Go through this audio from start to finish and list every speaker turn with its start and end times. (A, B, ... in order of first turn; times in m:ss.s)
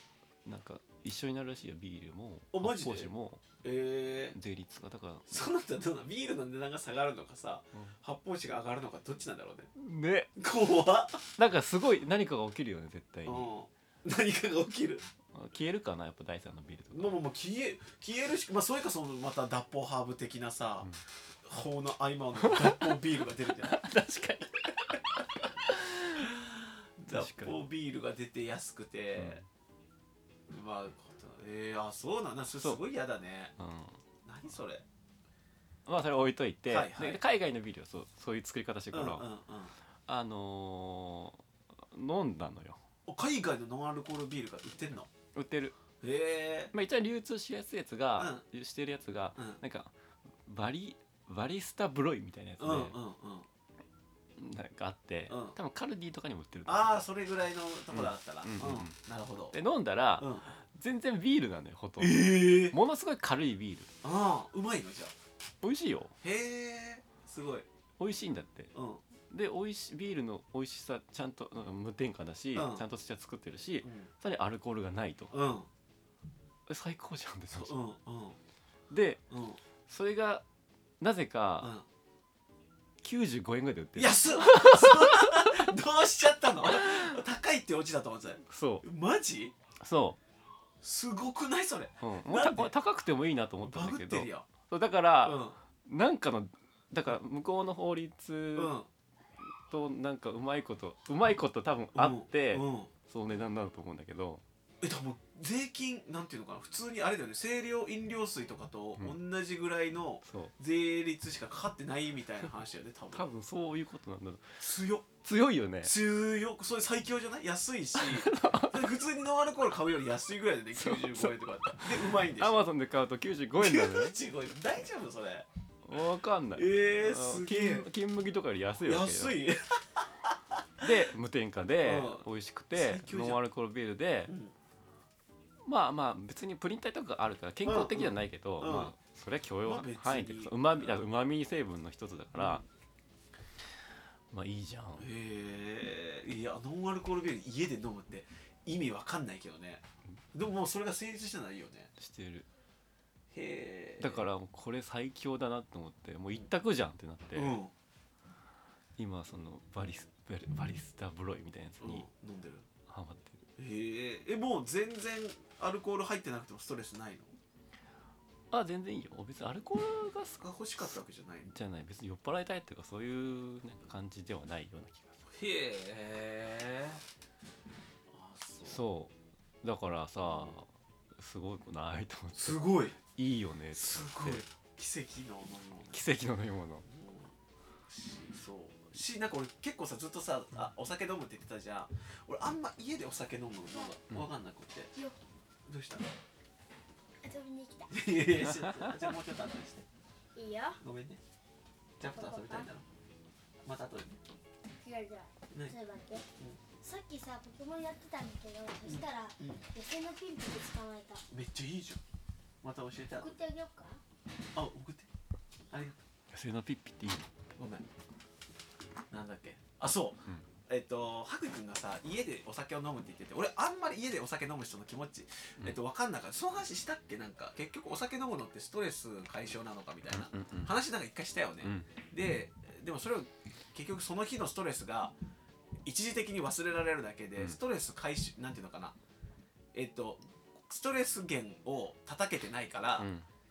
0:00.4-0:03.4 A
0:02.5-0:03.1 B
0:03.6-0:04.4 B
0:04.3-0:05.4 A
0:05.3-0:09.7 B
0:09.7-0:10.3 A
0:10.4-0:11.2 B
0:11.4-0:13.5 A
0:13.2-0:15.0 B
0:15.3-0:17.2 A
0:16.9-0:20.9 B
0:21.4-0:23.8 B
0:22.4-0:22.7 A
0:23.7-0:26.3 A
0:26.2-0:29.4 B
0:27.0-0:27.6 A
0:29.1-0:29.4 A
0:30.5-0:33.5 B
0:33.6-0:34.0 A
0:34.2-0:34.8 B
0:35.8-0:39.3 A
0:36.7-0:37.2 B
0:38.9-0:39.7 B
0:40.1-0:42.8 A
0:43.0-0:45.1 B
0:45.3-0:45.8 A
0:46.0-0:46.7 B
0:46.7-0:49.9 A
0:48.2-0:48.4 B
0:50.4-0:53.0 A
0:52.6-0:53.5 B
0:54.4-0:57.0 A
0:55.3-0:55.5 B
0:56.6-0:59.5 B
0:57.9-0:59.0 A
0:59.5-1:03.9 A
1:00.2-1:00.4 B
1:02.0-1:02.7 B
1:04.0-1:05.1 B
1:05.6-1:06.1 A
1:06.2-1:07.7 B
1:08.0-1:08.7 A
1:08.7-1:09.0 B
1:09.3-1:15.3 A
1:12.5-1:12.8 B
1:13.8-1:14.1 B
1:15.3-1:15.7 B
1:16.7-1:17.8 A
1:17.5-1:18.4 B
1:18.9-1:19.2 A
1:19.3-1:19.6 B
1:19.9-1:20.4 A
1:21.0-1:21.7 A
1:21.6-1:21.8 B
1:23.0-1:25.7 A
1:24.0-1:29.5 B
1:26.6-1:27.2 A
1:28.4-1:28.8 A
1:29.8-1:30.2 A
1:30.8-1:32.7 B
1:32.0-1:38.7 A
1:33.6-1:34.5 B
1:35.2-1:35.6 B
1:38.5-1:38.9 B
1:39.7-1:44.4 A
1:41.9-1:42.9 B
1:44.8-1:53.2 B
1:50.2-1:50.5 A
1:53.1-1:54.6 A
1:54.6-1:55.1 B
1:55.2-1:55.9 A
1:55.8-2:02.6 B
1:58.0-1:58.8 A
2:00.7-2:04.2 A
2:03.6-2:05.5 B
2:05.8-2:09.4 A
2:06.5-2:07.8 B
2:08.8-2:10.6 B
2:10.8-2:14.3 A
2:11.8-2:13.4 B
2:14.3-2:14.5 B
2:15.6-2:22.6 A
2:17.6-2:18.9 B
2:19.6-2:20.5 B
2:22.4-2:22.6 B
2:24.3-2:25.1 A
2:25.0-2:31.9 B
2:32.0-2:32.5 A
2:33.3-2:34.2 B
2:34.0-2:37.6 A
2:37.3-2:37.7 B
2:39.0-2:42.1 A
2:41.8-2:42.7 B
2:42.9-2:43.4 A
2:43.6-2:47.3 B
2:48.5-2:50.8 A
2:50.4-2:51.5 B
2:51.4-2:55.2 A
2:55.3-2:57.0 B
2:58.1-2:58.8 B
2:58.6-3:04.4 A
3:00.3-3:00.5 B
3:02.4-3:03.0 B
3:03.7-3:06.0 B
3:05.9-3:06.8 A
3:06.9-3:07.3 B
3:07.9-3:14.9 B
3:15.6-3:16.1 B
3:17.2-3:18.1 C
3:17.9-3:19.8 B
3:18.5-3:18.9 A
3:20.4-3:20.8 C
3:20.8-3:21.2 B
3:22.0-3:22.8 B
3:22.0-3:22.7 C
3:23.6-3:24.2 B
3:24.8-3:26.2 C
3:26.8-3:31.2 C
3:28.9-3:29.6 B
3:31.3-3:32.0 B
3:32.6-3:33.4 B
3:33.1-3:34.0 C
3:34.5-3:35.1 B
3:35.7-3:36.0 B
3:36.3-3:37.3 A
3:37.6-3:37.8 B
3:39.1-3:55.1 B
3:50.1-3:50.7 A
3:51.6-3:51.9 A
3:55.8-3:59.0 B
3:59.7-4:03.1 B
4:03.0-4:03.3 A